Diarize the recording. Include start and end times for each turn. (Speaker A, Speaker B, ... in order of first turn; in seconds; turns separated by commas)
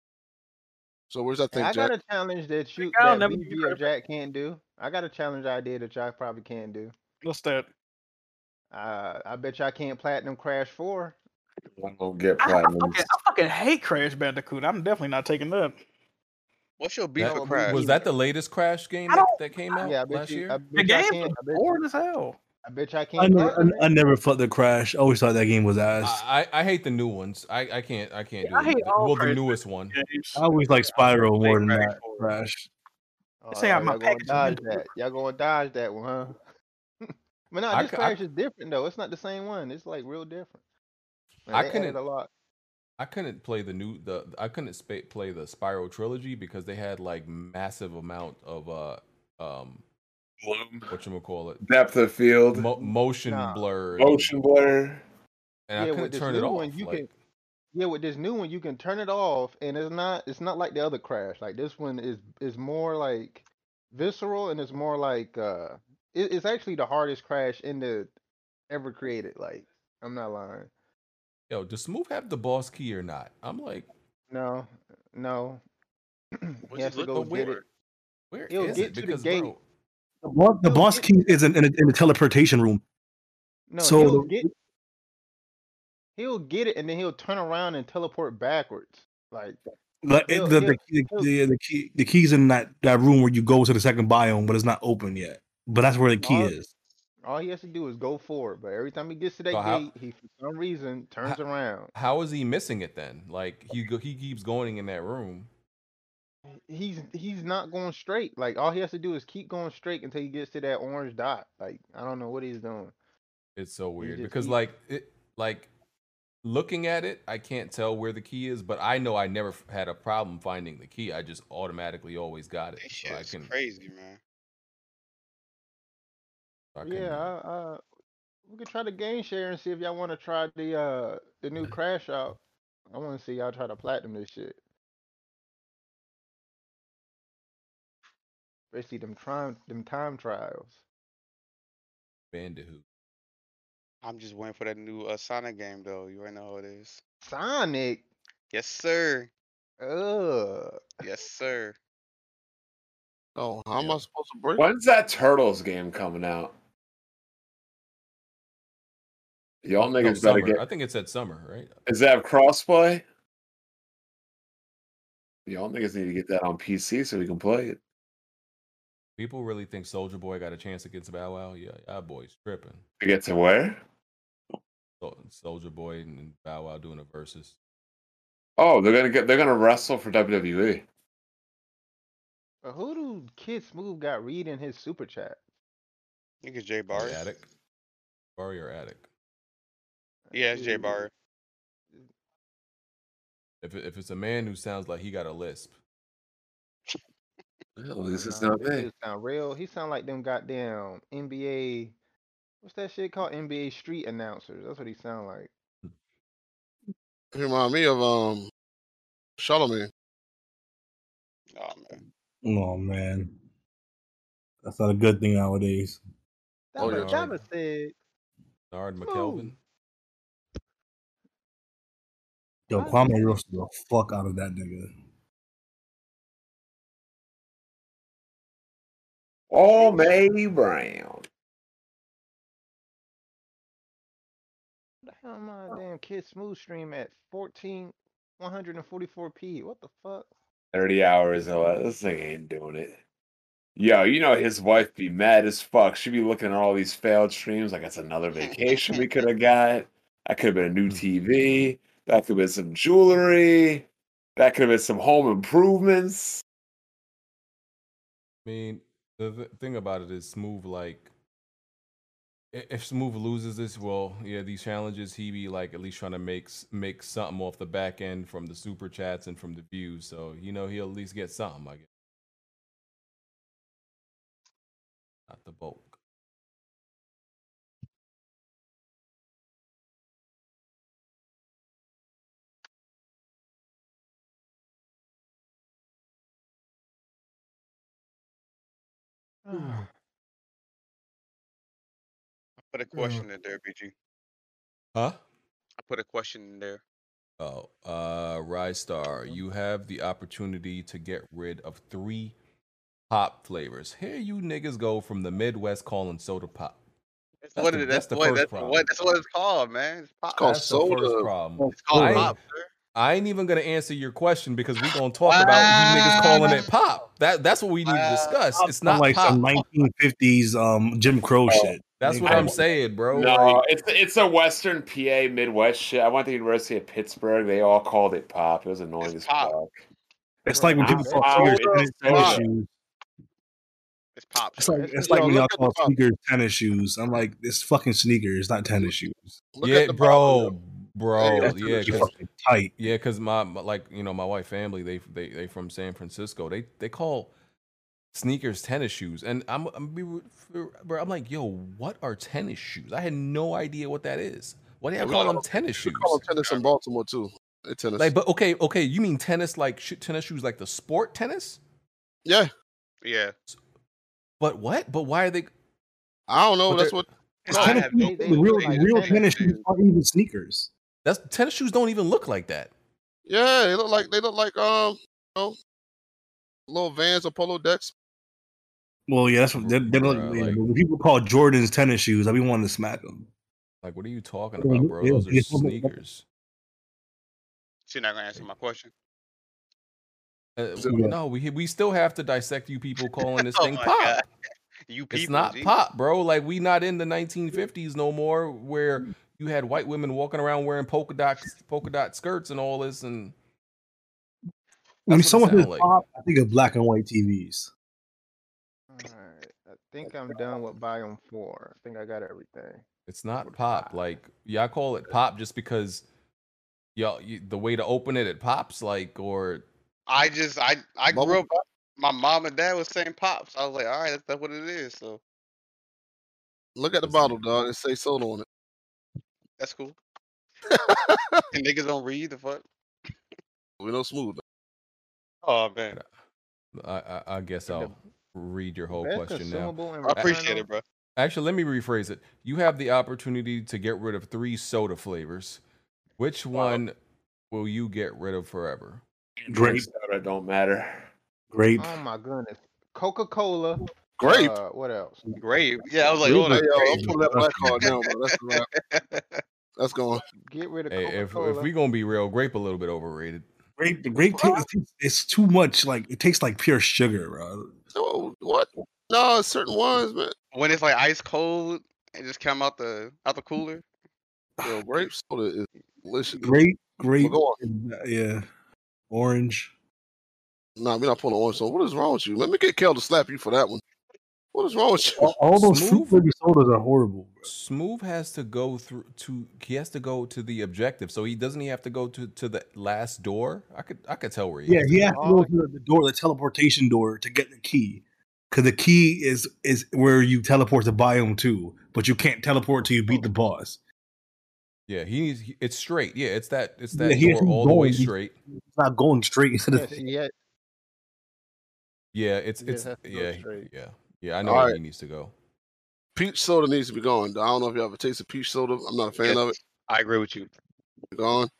Speaker A: 1.1-1.9, Speaker B: 1.5-6.9, Speaker C: 2.8-3.8, Speaker C: 7.2-7.7, Speaker B: 8.7-11.2, Speaker D: 11.7-13.1, Speaker C: 12.4-15.8, Speaker E: 16.8-17.9, Speaker F: 17.2-20.6, Speaker B: 17.2-18.0, Speaker C: 19.1-19.9, Speaker B: 19.8-21.8, Speaker C: 20.7-22.4, Speaker B: 22.6-23.9, Speaker G: 23.2-26.2, Speaker F: 26.0-29.9, Speaker C: 28.4-30.4, Speaker G: 30.3-32.7, Speaker E: 30.8-32.4, Speaker B: 33.4-36.4, Speaker C: 33.5-34.9, Speaker B: 37.0-40.6, Speaker F: 37.7-38.2, Speaker B: 41.5-42.3, Speaker F: 41.5-42.0, Speaker F: 43.0-49.8, Speaker D: 50.4-50.9, Speaker F: 50.9-51.6, Speaker D: 51.6-52.7, Speaker F: 52.5-54.3, Speaker B: 52.8-53.6, Speaker D: 54.0-55.0, Speaker F: 55.7-57.1, Speaker B: 55.8-57.1, Speaker B: 57.7-68.1, Speaker B: 68.7-70.7, Speaker F: 71.5-73.9, Speaker B: 74.3-75.6, Speaker B: 76.4-77.6, Speaker E: 76.7-77.6, Speaker F: 77.1-77.5, Speaker F: 78.3-79.6, Speaker B: 78.5-79.5, Speaker G: 80.2-82.8, Speaker B: 80.6-81.3, Speaker B: 83.7-84.5, Speaker G: 83.8-84.5, Speaker B: 86.2-89.6, Speaker G: 90.0-96.7, Speaker B: 90.3-91.3, Speaker B: 96.2-96.5, Speaker B: 97.2-101.9, Speaker F: 99.5-99.9, Speaker F: 101.9-105.5, Speaker B: 106.7-112.9, Speaker F: 113.5-115.7, Speaker B: 114.0-114.6, Speaker F: 116.4-123.5, Speaker E: 122.8-124.2, Speaker F: 126.7-127.3, Speaker B: 126.8-127.8, Speaker B: 128.5-134.6, Speaker B: 138.7-140.8, Speaker F: 142.3-142.8, Speaker E: 144.0-147.0, Speaker B: 147.2-148.0, Speaker E: 148.5-149.3, Speaker B: 149.8-151.0, Speaker E: 151.0-151.8, Speaker A: 153.3-154.6, Speaker D: 154.6-156.5, Speaker D: 159.6-160.6, Speaker F: 159.8-161.7, Speaker D: 161.8-163.0, Speaker D: 165.4-167.8, Speaker F: 169.2-172.8, Speaker D: 173.0-173.8, Speaker F: 175.0-177.6, Speaker D: 178.6-180.8, Speaker B: 182.6-185.4, Speaker E: 186.4-187.2, Speaker F: 186.9-187.4, Speaker F: 188.4-189.1, Speaker B: 190.3-191.0, Speaker E: 190.3-191.1, Speaker F: 193.6-195.7, Speaker D: 197.8-198.9, Speaker B: 198.2-201.9, Speaker B: 202.6-205.5, Speaker A: 207.3-208.5, Speaker A: 209.4-209.9, Speaker E: 211.5-212.0, Speaker G: 212.4-213.3, Speaker G: 214.6-216.0, Speaker B: 216.7-217.9, Speaker F: 216.8-217.3, Speaker A: 216.8-217.3, Speaker F: 218.7-219.6, Speaker B: 219.0-219.5, Speaker G: 222.7-224.9, Speaker B: 222.7-223.4, Speaker D: 229.5-231.2, Speaker B: 235.1-240.3, Speaker D: 240.7-243.0, Speaker D: 243.8-253.8, Speaker E: 248.4-249.1, Speaker D: 254.4-256.4, Speaker F: 258.4-261.1, Speaker F: 262.5-271.9, Speaker F: 275.3-275.9, Speaker B: 289.4-289.9, Speaker E: 292.7-293.9, Speaker B: 292.9-293.3, Speaker E: 295.8-296.8, Speaker F: 297.4-302.3, Speaker F: 303.1-306.8, Speaker E: 307.4-310.5, Speaker F: 307.6-308.9, Speaker A: 310.3-311.3, Speaker F: 310.4-312.3, Speaker G: 311.6-312.3, Speaker E: 311.7-312.7, Speaker F: 312.9-319.4, Speaker E: 315.2-316.7, Speaker E: 317.8-318.4, Speaker G: 318.6-322.6, Speaker D: 321.5-321.7, Speaker F: 322.0-323.6, Speaker D: 322.2-322.6, Speaker D: 323.1-329.8, Speaker E: 329.0-329.6, Speaker G: 330.4-332.7, Speaker B: 330.5-331.4, Speaker D: 330.8-332.4, Speaker A: 332.0-332.4, Speaker E: 334.1-335.0, Speaker G: 334.6-339.4, Speaker B: 334.8-335.3, Speaker A: 335.0-335.9, Speaker A: 339.5-340.5, Speaker F: 339.6-342.1, Speaker A: 341.2-342.1, Speaker G: 341.3-342.7, Speaker F: 342.8-347.3, Speaker F: 348.1-356.2, Speaker A: 355.0-358.1, Speaker E: 355.1-355.3, Speaker E: 356.4-356.7, Speaker F: 358.0-361.6, Speaker E: 363.0-363.3, Speaker F: 364.4-365.5, Speaker A: 366.3-367.1, Speaker F: 366.7-367.0, Speaker G: 367.4-370.7, Speaker E: 367.5-369.6, Speaker B: 367.5-369.4, Speaker F: 371.0-372.7, Speaker A: 373.3-375.5, Speaker A: 376.7-377.9, Speaker G: 379.1-383.3, Speaker F: 379.6-380.6, Speaker F: 383.8-386.2, Speaker G: 384.6-385.9, Speaker E: 387.9-388.9, Speaker F: 390.6-394.2, Speaker G: 390.8-391.1, Speaker E: 393.4-394.2, Speaker E: 394.9-395.8, Speaker F: 395.1-403.3, Speaker G: 405.1-407.7, Speaker F: 405.1-405.9, Speaker B: 408.9-412.8, Speaker F: 413.1-416.0, Speaker B: 413.4-414.0, Speaker F: 416.9-419.6, Speaker E: 420.1-425.2, Speaker A: 421.1-421.4, Speaker A: 426.8-428.4, Speaker F: 427.0-427.4, Speaker E: 429.6-430.0, Speaker A: 430.7-431.4, Speaker E: 431.5-432.6, Speaker A: 433.8-434.4, Speaker E: 435.4-435.9, Speaker F: 436.7-440.3, Speaker B: 437.7-437.9, Speaker B: 438.9-440.7, Speaker E: 440.0-440.8, Speaker F: 441.2-445.6, Speaker F: 446.2-446.9, Speaker E: 446.5-446.8, Speaker F: 447.5-449.0, Speaker G: 449.5-449.9, Speaker D: 449.5-451.1, Speaker G: 451.5-452.0, Speaker B: 451.8-455.3, Speaker A: 454.2-454.6, Speaker E: 455.4-459.4, Speaker G: 456.2-457.9, Speaker A: 456.2-458.7, Speaker A: 459.8-460.2, Speaker B: 460.5-461.7, Speaker F: 460.9-463.4, Speaker G: 463.8-467.7, Speaker A: 464.4-464.6, Speaker A: 467.9-470.3, Speaker E: 470.5-473.8, Speaker A: 474.6-476.5, Speaker G: 476.4-478.4, Speaker A: 477.2-477.6, Speaker G: 479.1-479.7, Speaker A: 480.8-483.8, Speaker A: 484.5-485.3, Speaker G: 485.2-487.4, Speaker F: 485.5-486.3, Speaker F: 487.4-495.1, Speaker G: 494.7-503.8, Speaker B: 495.1-495.5, Speaker F: 504.9-508.3, Speaker G: 506.9-510.0, Speaker B: 509.7-510.3, Speaker F: 512.1-515.3, Speaker B: 512.6-513.7, Speaker A: 514.4-514.8, Speaker A: 516.1-519.5, Speaker E: 519.2-520.5, Speaker A: 521.1-521.5